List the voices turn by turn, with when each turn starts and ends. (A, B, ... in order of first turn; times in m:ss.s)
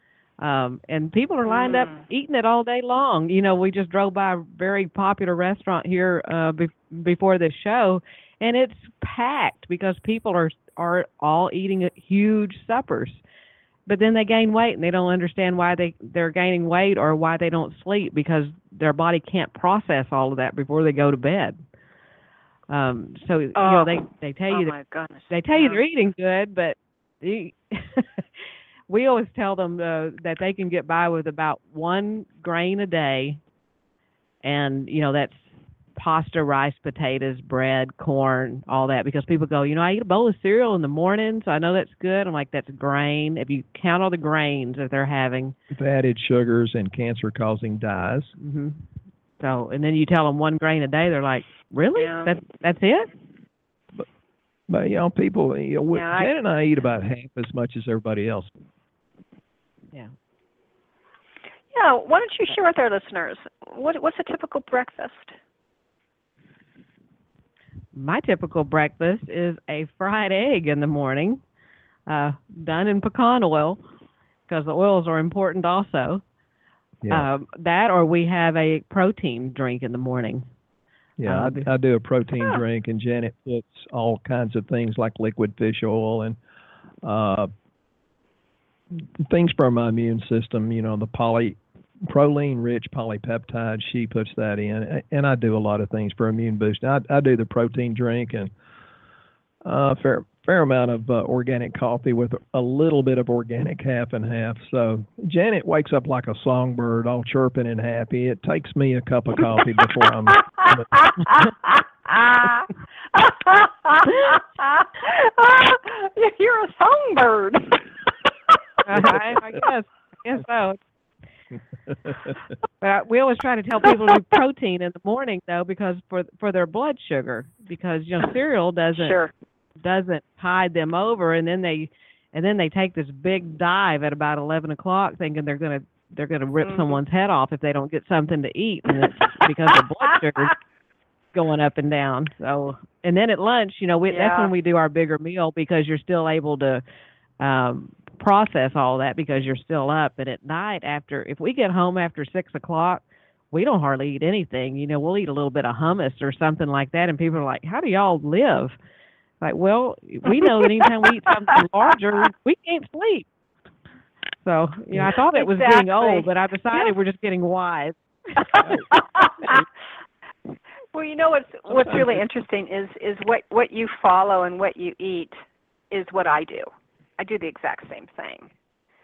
0:00.4-0:13.2 A
0:01.5-0:02.0 B
0:13.9-0:21.6 A
0:22.7-0:24.8 A
0:23.6-0:25.8 B
0:25.3-0:28.2 A
0:28.9-0:33.4 A
0:34.4-0:35.4 A
0:36.0-0:45.6 A
0:45.7-0:48.4 C
0:48.4-0:48.8 A
0:49.4-0:53.1 A
0:52.0-0:52.4 B
0:54.7-0:58.5 C
0:55.9-0:56.3 B
1:01.7-1:05.4 B
1:07.9-1:11.4 A
1:12.1-1:13.8 A
1:14.5-1:16.2 A
1:17.0-1:17.3 C
1:17.1-1:20.5 A
1:21.2-1:26.4 C
1:21.3-1:21.7 A
1:27.0-1:27.5 C
1:28.9-1:38.5 C
1:39.6-1:50.9 C
1:50.6-1:58.1 B
1:58.9-2:00.8 A
2:02.8-2:09.2 A
2:09.0-2:09.3 B
2:09.8-2:20.6 A
2:16.6-2:16.9 B
2:21.3-2:26.8 A
2:24.1-2:24.5 B
2:27.4-2:38.8 A
2:39.4-2:43.3 A
2:44.4-2:48.8 A
2:45.3-2:46.9 B
2:48.5-2:49.6 B
2:50.9-2:55.4 B
2:51.8-2:52.2 A
2:55.9-2:58.5 B